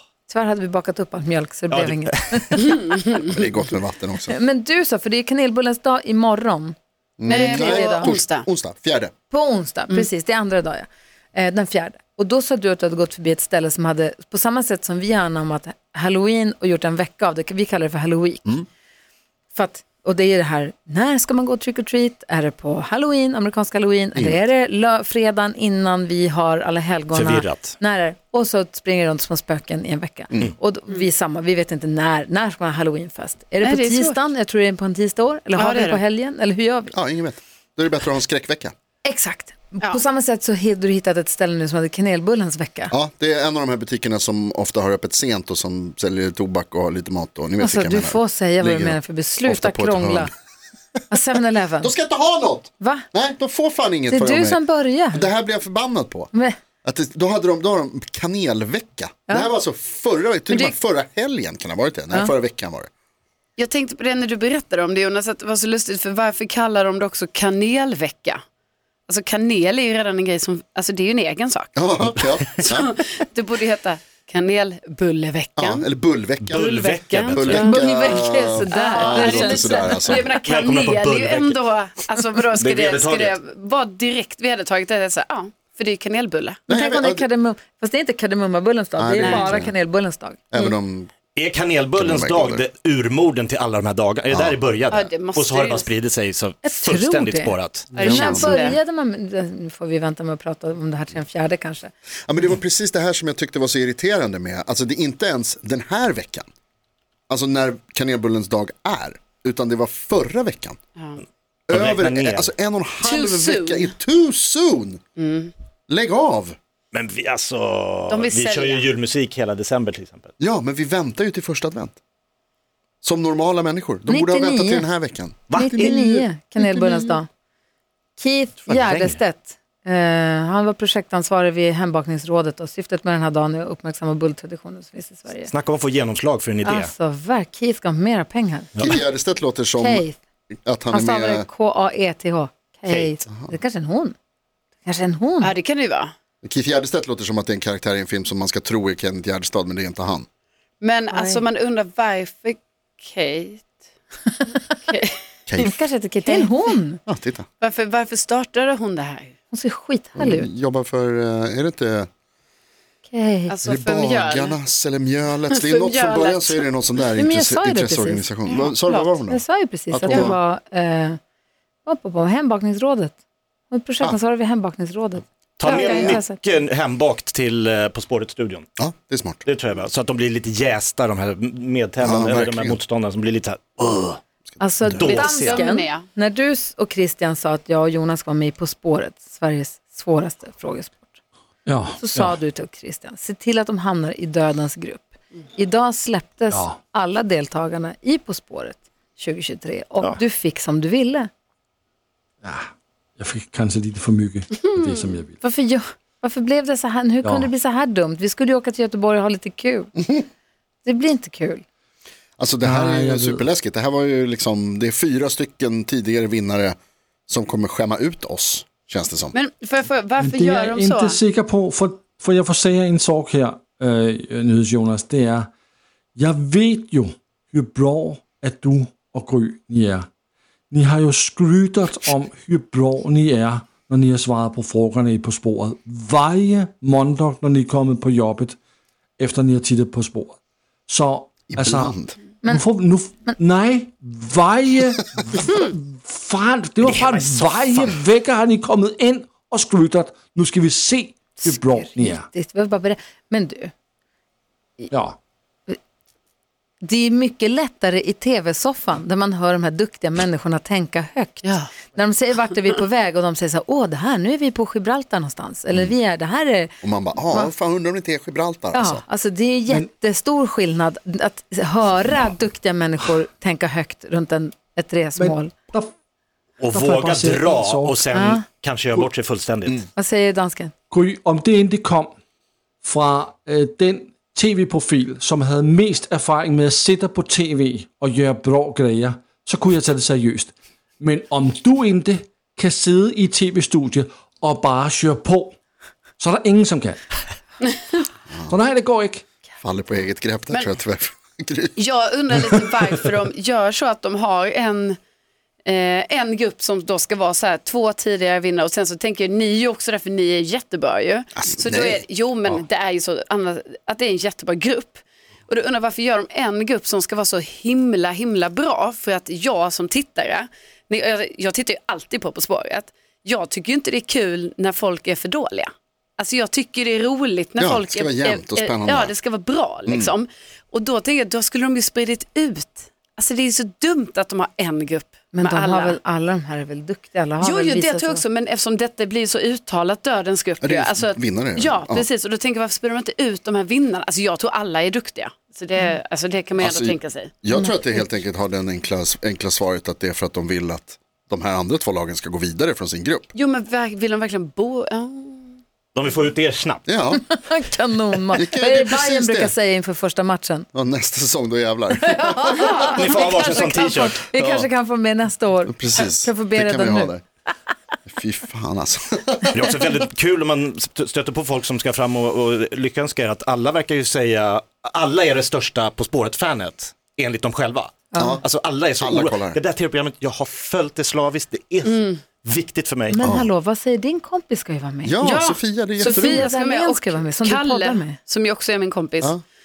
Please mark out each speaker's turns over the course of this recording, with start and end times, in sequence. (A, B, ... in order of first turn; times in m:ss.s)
0:00.3-0:02.9 A
0:01.7-0:02.6 B
0:02.6-0:03.2 C
0:03.1-0:04.4 D
0:04.3-0:06.8 A
0:07.2-0:09.1 D
0:07.3-0:08.2 A
0:07.3-0:08.4 C
0:09.3-0:18.5 A
0:19.5-0:36.9 A
0:24.1-0:24.4 D
0:27.1-0:27.7 B
0:33.6-0:34.2 C
0:35.6-0:36.0 C
0:36.9-0:38.7 D
0:39.0-0:42.9 A
0:42.9-0:50.3 D
0:47.6-0:50.3 A
0:51.1-0:51.9 A
0:51.8-0:56.3 D
0:52.8-0:53.0 A
0:54.1-0:55.3 A
0:56.8-1:02.9 D
1:00.5-1:00.8 A
1:03.6-1:08.4 C
1:09.1-1:11.9 C
1:11.8-1:13.0 D
1:12.4-1:15.9 C
1:15.6-1:16.7 D
1:16.4-1:17.7 B
1:16.5-1:26.6 C
1:17.3-1:20.3 D
1:17.5-1:20.3 A
1:20.4-1:21.6 B
1:22.5-1:23.4 B
1:26.7-1:27.2 D
1:26.7-1:30.4 A
1:29.0-1:29.7 D
1:29.2-1:29.5 C
1:30.5-1:31.1 D
1:31.4-1:38.0 B
1:32.0-1:32.6 D
1:34.3-1:34.6 D
1:34.9-1:35.9 C
1:36.6-1:41.9 A
1:37.9-1:38.8 C
1:38.0-1:38.7 D
1:42.3-1:46.5 D
1:47.3-1:50.8 D
1:51.0-1:51.2 C
1:51.7-1:52.5 B
1:51.7-1:55.0 D
1:53.0-1:53.9 C
1:55.2-1:55.5 C
1:55.9-1:56.6 D
1:56.9-2:00.3 B
1:58.1-1:58.9 C
2:00.4-2:01.9 D
2:03.0-2:06.2 D
2:04.1-2:04.9 A
2:05.5-2:05.9 B
2:05.5-2:07.3 A
2:06.6-2:07.1 C
2:08.2-2:15.5 A
2:08.7-2:09.2 B
2:15.4-2:16.9 B
2:16.6-2:19.0 A
2:18.8-2:20.0 D
2:19.8-2:20.2 A
2:20.6-2:21.4 D
2:20.9-2:24.1 A
2:24.8-2:25.5 A
2:25.4-2:26.1 C
2:26.4-2:30.2 D
2:30.8-2:33.8 C
2:31.1-2:31.4 A
2:34.8-2:35.2 C
2:35.5-2:35.7 D
2:35.6-2:37.0 A
2:37.0-2:37.4 D
2:37.6-2:39.3 C
2:39.5-2:40.5 A
2:40.2-2:42.1 D
2:43.0-2:43.5 A
2:43.5-2:44.6 C
2:43.6-2:50.3 D
2:45.5-2:46.6 C
2:47.2-2:48.2 A
2:48.5-2:48.7 C
2:48.9-2:51.2 A
2:51.8-2:53.1 A
2:53.7-2:56.4 A
2:55.6-2:58.7 B
2:55.6-2:56.2 C
2:58.8-2:59.4 D
2:59.4-3:04.2 B
3:02.0-3:02.8 D
3:04.6-3:11.1 A
3:04.9-3:05.6 B
3:05.0-3:06.0 C
3:11.6-3:12.4 E
3:12.0-3:21.3 A
3:16.5-3:16.8 E
3:22.4-3:25.4 E
3:24.8-3:25.0 C
3:25.4-3:29.9 A
3:27.2-3:27.5 E
3:30.0-3:30.2 D
3:30.8-3:31.6 A
3:32.4-3:36.8 D
3:32.6-3:33.4 E
3:37.3-3:39.3 D
3:39.3-3:41.2 C
3:40.2-3:45.5 E
3:46.1-3:50.1 E
3:50.7-3:58.6 E
3:59.2-4:12.3 E
4:01.5-4:02.1 D
4:06.8-4:07.9 B
4:11.4-4:13.7 A
4:14.9-4:15.2 E
4:16.8-4:27.5 A
4:21.4-4:21.7 C
4:26.8-4:29.0 D
4:28.7-4:35.5 A
4:35.2-4:35.9 E
4:36.6-4:39.8 B
4:36.6-4:38.0 E
4:38.1-4:38.4 A
4:40.0-4:40.7 A
4:40.9-4:42.1 E
4:42.8-4:55.6 E
4:56.2-4:57.0 E
4:58.5-4:59.2 E
4:59.6-5:01.8 D
5:01.8-5:05.0 C
5:05.6-5:36.0 C
5:11.4-5:12.0 D
5:27.6-5:29.1 D
5:29.9-5:30.1 D
5:35.3-5:38.2 A
5:37.4-5:47.3 C
5:40.6-5:42.0 D
5:46.6-5:53.3 D
5:47.5-5:48.0 A
5:53.3-5:55.6 C
5:55.9-5:56.8 B
5:56.8-5:57.2 D
5:57.1-6:00.7 A
5:58.3-5:59.5 D
6:00.7-6:03.6 D
6:02.0-6:07.1 A
6:02.9-6:03.3 C
6:02.9-6:04.2 B
6:04.3-6:04.7 D
6:05.7-6:07.2 D
6:08.1-6:10.0 D
6:09.5-6:23.3 B
6:18.1-6:18.4 A
6:18.2-6:18.4 D
6:19.0-6:19.6 D
6:21.8-6:22.2 C
6:23.1-6:25.2 A
6:23.2-6:23.5 D
6:25.0-6:26.5 D
6:25.2-6:29.4 C
6:26.0-6:28.2 A